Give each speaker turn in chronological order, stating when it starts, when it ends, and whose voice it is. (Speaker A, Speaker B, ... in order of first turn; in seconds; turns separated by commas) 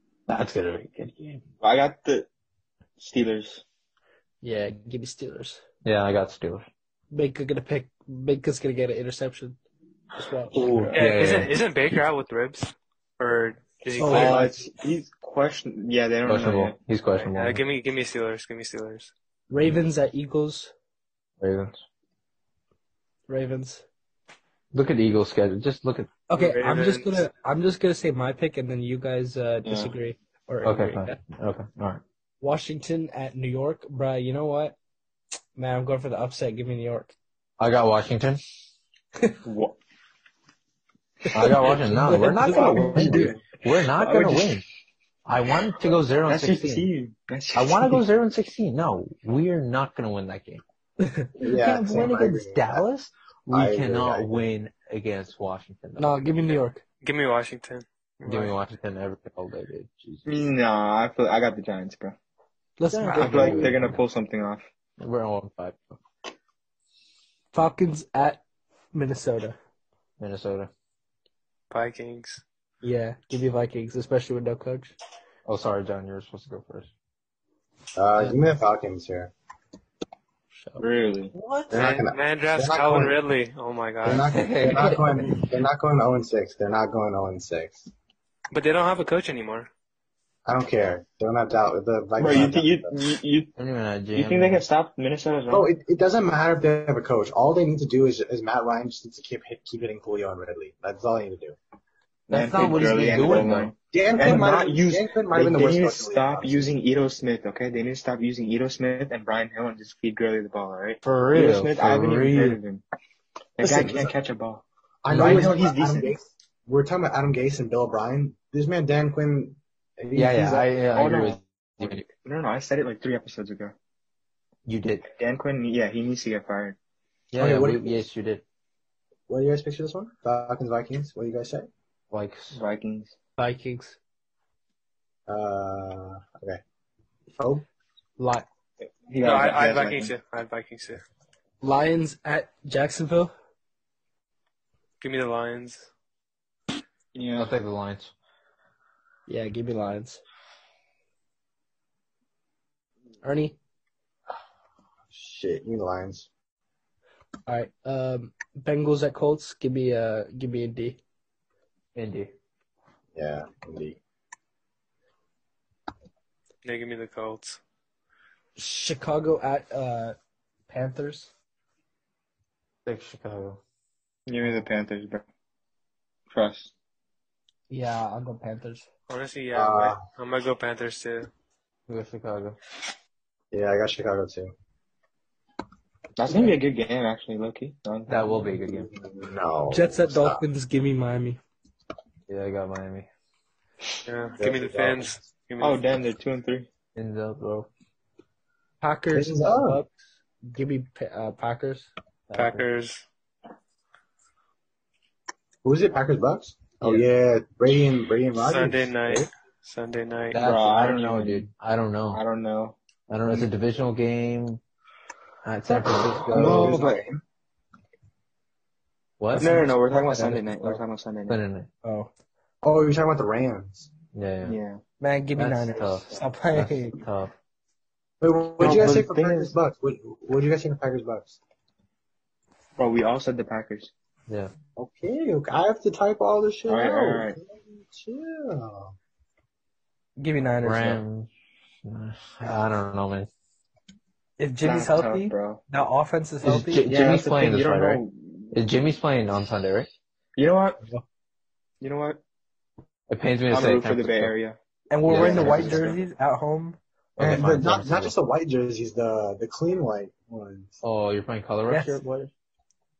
Speaker A: 0.3-1.4, Speaker B: 1.6-2.3, Speaker B: 3.0-3.6, Speaker C: 4.4-5.6, Speaker A: 5.8-6.6, Speaker C: 7.1-9.6, Speaker C: 10.1-11.0, Speaker A: 10.5-11.5, Speaker D: 10.9-14.5, Speaker C: 13.9-14.5, Speaker B: 14.0-16.8, Speaker A: 16.2-17.6, Speaker D: 17.1-19.1, Speaker C: 19.5-20.7, Speaker A: 21.4-21.8, Speaker C: 23.3-23.8, Speaker A: 24.7-26.1, Speaker C: 26.3-31.2, Speaker D: 26.3-27.2, Speaker B: 29.6-29.9, Speaker A: 30.6-32.0, Speaker C: 32.4-34.8, Speaker C: 35.5-37.1, Speaker A: 37.6-38.4, Speaker B: 39.4-39.8, Speaker C: 41.3-43.3, Speaker A: 41.3-44.6, Speaker B: 42.4-44.6, Speaker A: 45.2-46.9, Speaker B: 46.2-48.0, Speaker A: 47.5-50.6, Speaker C: 51.0-51.3, Speaker E: 51.4-52.8, Speaker A: 51.4-56.3, Speaker E: 53.5-54.5, Speaker C: 56.0-56.8, Speaker D: 57.0-58.5, Speaker A: 58.2-60.3, Speaker B: 60.2-62.1, Speaker C: 62.8-63.8, Speaker A: 62.9-64.0, Speaker B: 63.1-64.6, Speaker A: 65.0-66.0, Speaker C: 67.5-68.4, Speaker C: 68.9-69.6, Speaker A: 70.2-70.7, Speaker D: 71.7-72.4, Speaker C: 72.8-75.0, Speaker A: 75.5-76.9, Speaker E: 77.9-79.3, Speaker C: 78.2-78.5, Speaker B: 80.8-81.3, Speaker A: 81.3-81.7, Speaker E: 81.7-83.2, Speaker D: 81.7-84.4, Speaker E: 84.0-87.9, Speaker A: 84.0-85.4, Speaker D: 88.5-89.7, Speaker E: 90.4-92.9, Speaker B: 92.2-93.5, Speaker A: 93.5-94.6, Speaker B: 94.1-95.7, Speaker E: 95.5-101.6, Speaker B: 102.3-112.8, Speaker A: 102.3-104.4, Speaker E: 102.6-103.0, Speaker E: 103.9-106.7, Speaker A: 111.0-112.6, Speaker B: 113.6-116.2, Speaker E: 113.6-114.1, Speaker E: 115.0-120.7, Speaker A: 115.1-115.5, Speaker A: 120.1-122.0, Speaker B: 120.9-123.7, Speaker A: 124.7-125.1, Speaker B: 125.2-126.8, Speaker A: 127.3-128.4, Speaker E: 127.4-128.1, Speaker E: 129.3-131.7, Speaker A: 132.1-132.6, Speaker B: 132.5-133.1, Speaker C: 133.4-134.0, Speaker E: 135.3-136.6, Speaker E: 137.4-137.6, Speaker C: 138.2-138.4, Speaker B: 139.1-140.1, Speaker D: 139.2-141.0, Speaker C: 141.6-143.3, Speaker D: 145.0-145.9, Speaker B: 147.1-147.5, Speaker A: 147.4-148.1, Speaker C: 149.3-150.2, Speaker C: 153.2-153.6, Speaker E: 155.1-156.3, Speaker C: 157.5-161.0, Speaker A: 161.9-162.3, Speaker E: 163.1-164.0, Speaker D: 166.6-167.6, Speaker C: 168.6-170.2, Speaker C: 170.7-171.3, Speaker A: 172.8-173.6, Speaker B: 174.3-175.2, Speaker B: 176.3-176.7, Speaker C: 177.7-178.9, Speaker D: 179.1-181.3, Speaker E: 179.5-180.0, Speaker A: 181.9-182.6, Speaker E: 183.5-184.5, Speaker B: 186.2-188.4, Speaker A: 188.1-188.9, Speaker E: 188.6-190.4, Speaker C: 189.7-191.4, Speaker A: 192.3-193.1, Speaker D: 194.0-195.8, Speaker E: 194.4-195.2, Speaker B: 195.6-196.7, Speaker A: 196.9-197.7, Speaker C: 198.8-201.9, Speaker E: 199.1-199.8, Speaker A: 202.3-202.7, Speaker D: 202.3-203.0, Speaker E: 205.6-209.3, Speaker D: 208.3-210.4, Speaker A: 210.3-212.2, Speaker B: 210.4-211.5, Speaker B: 212.1-212.8, Speaker A: 213.1-214.6, Speaker A: 215.4-216.8, Speaker E: 215.7-217.2, Speaker B: 216.3-217.1, Speaker A: 219.2-219.6, Speaker C: 219.3-220.8, Speaker B: 219.3-221.4, Speaker A: 221.3-221.7, Speaker C: 221.8-222.1, Speaker E: 222.6-223.9, Speaker A: 224.1-224.6, Speaker B: 224.4-224.8, Speaker C: 225.0-227.0, Speaker A: 225.4-227.3, Speaker E: 228.2-231.4, Speaker B: 228.6-229.5, Speaker B: 232.8-233.9, Speaker E: 234.8-238.9, Speaker B: 236.7-237.4, Speaker C: 240.2-241.0, Speaker A: 240.6-241.3, Speaker A: 241.8-243.3, Speaker C: 244.4-246.9, Speaker B: 244.6-245.6, Speaker A: 246.4-248.0, Speaker B: 246.9-248.5, Speaker A: 248.5-249.9, Speaker B: 250.3-250.8, Speaker B: 251.8-252.2, Speaker A: 253.1-254.3, Speaker B: 253.5-254.6, Speaker C: 254.9-256.8, Speaker A: 255.1-255.9, Speaker B: 255.1-256.0, Speaker A: 257.1-258.1, Speaker E: 257.2-260.8, Speaker A: 260.8-262.3, Speaker C: 261.7-262.0